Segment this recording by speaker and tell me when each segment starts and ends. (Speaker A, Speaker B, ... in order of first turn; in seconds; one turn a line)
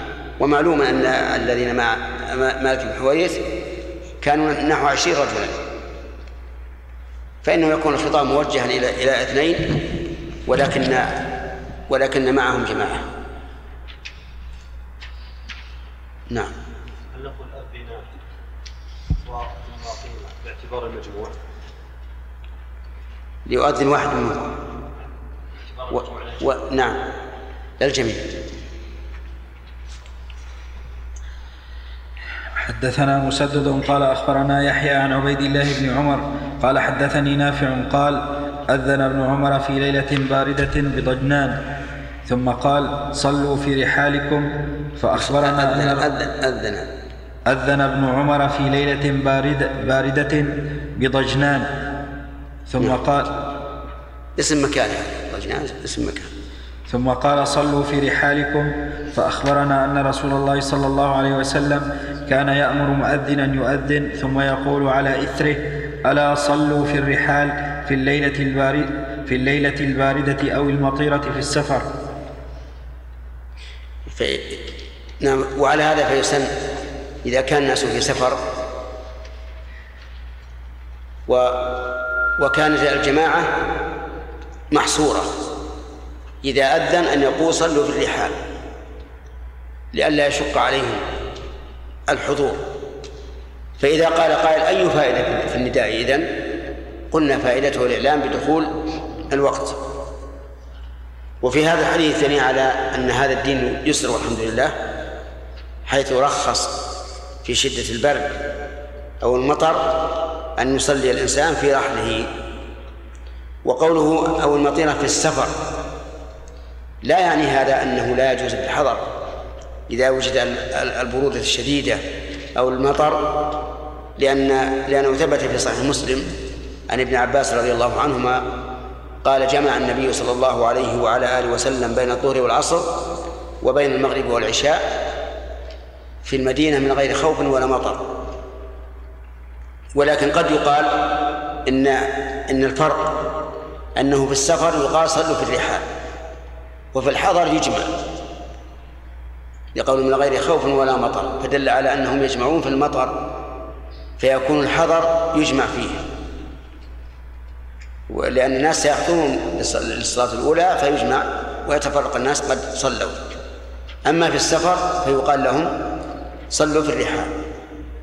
Speaker A: 0.4-3.4
Speaker A: 4.2-5.6
Speaker A: 7.4-9.9
Speaker A: 10.5-11.2
Speaker A: 11.9-13.1
Speaker B: 17.1-18.1
Speaker B: 19.2-21.4
Speaker A: 23.5-24.6
Speaker B: 25.7-26.4
Speaker A: 25.9-27.0
Speaker A: 27.8-28.2
Speaker C: 32.6-41.6
Speaker C: 42.3-46.1
Speaker A: 45.1-46.9
Speaker C: 47.5-51.7
Speaker C: 52.7-53.3
Speaker A: 54.4-56.3
Speaker C: 56.9-71.9
Speaker A: 74.1-74.6
Speaker A: 75.2-76.5
Speaker A: 77.2-78.4
Speaker A: 81.3-83.6
Speaker A: 84.7-85.3
Speaker A: 86.4-88.4
Speaker A: 89.9-91.1
Speaker A: 92.1-92.7
Speaker A: 93.8-96.3
Speaker A: 97.1-98.8
Speaker A: 99.3-99.8
Speaker A: 101.4-104.8
Speaker A: 105.9-106.8
Speaker A: 107.4-108.4
Speaker A: 109.2-112.3
Speaker A: 113.7-115.6
Speaker A: 117.0-119.1
Speaker A: 119.9-122.0
Speaker A: 122.5-123.5
Speaker A: 124.2-126.3
Speaker A: 126.9-128.4
Speaker A: 129.2-133.0
Speaker A: 133.6-134.9
Speaker A: 136.2-138.1
Speaker A: 139.9-143.3
Speaker A: 143.9-145.9
Speaker A: 146.9-147.9
Speaker A: 149.8-153.2
Speaker A: 154.2-156.0
Speaker A: 158.1-163.2
Speaker A: 164.1-165.8
Speaker A: 166.5-167.3